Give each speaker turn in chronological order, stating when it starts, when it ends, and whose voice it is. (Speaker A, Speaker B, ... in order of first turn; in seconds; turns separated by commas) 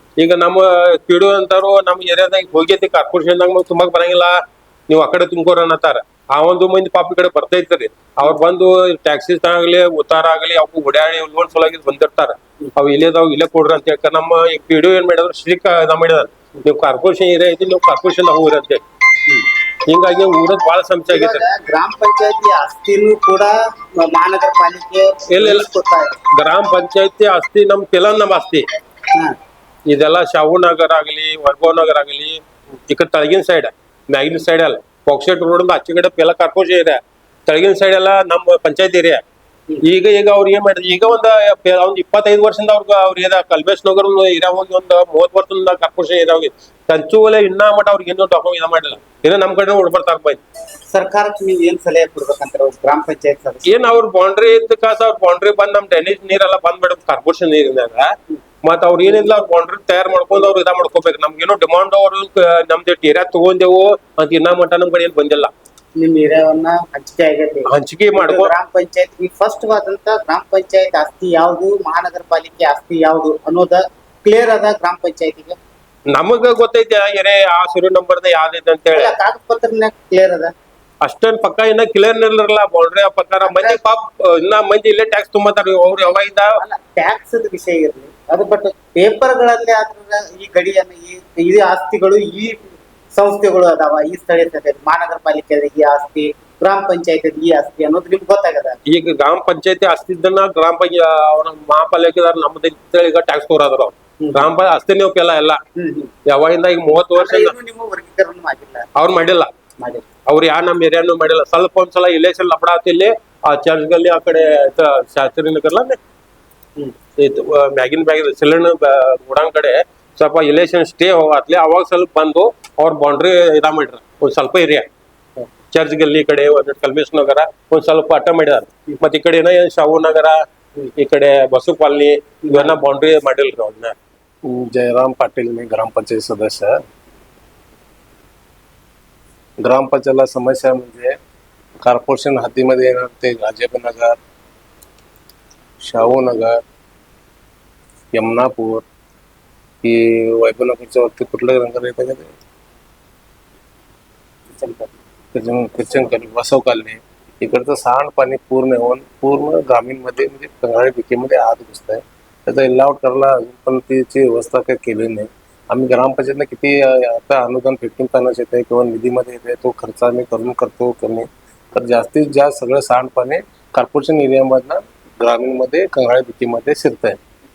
Speaker A: 0.2-4.4, Speaker A: 4.9-18.8, Speaker A: 19.9-21.4, Speaker B: 21.1-26.1, Speaker A: 25.3-25.7, Speaker A: 26.4-28.6, Speaker A: 29.9-39.2, Speaker A: 39.8-50.4, Speaker B: 50.9-53.7, Speaker A: 53.7-58.1, Speaker A: 58.6-65.5, Speaker B: 66.0-75.6, Speaker A: 67.7-68.5, Speaker A: 76.1-79.1, Speaker B: 78.9-80.5, Speaker A: 81.0-86.5, Speaker B: 83.4-83.8, Speaker B: 86.6-98.8, Speaker A: 98.9-105.6, Speaker B: 104.2-104.5, Speaker B: 105.8-106.1, Speaker A: 106.3-107.5, Speaker B: 107.2-108.8, Speaker A: 109.0-109.5, Speaker B: 109.8-110.0, Speaker A: 110.3-116.0, Speaker A: 117.2-124.9, Speaker A: 125.7-130.4, Speaker A: 131.0-134.0, Speaker C: 134.5-136.8, Speaker C: 139.6-141.2, Speaker C: 141.8-144.2, Speaker C: 145.8-146.6, Speaker C: 148.1-148.9, Speaker C: 149.8-152.3, Speaker B: 154.6-154.9, Speaker C: 155.3-177.2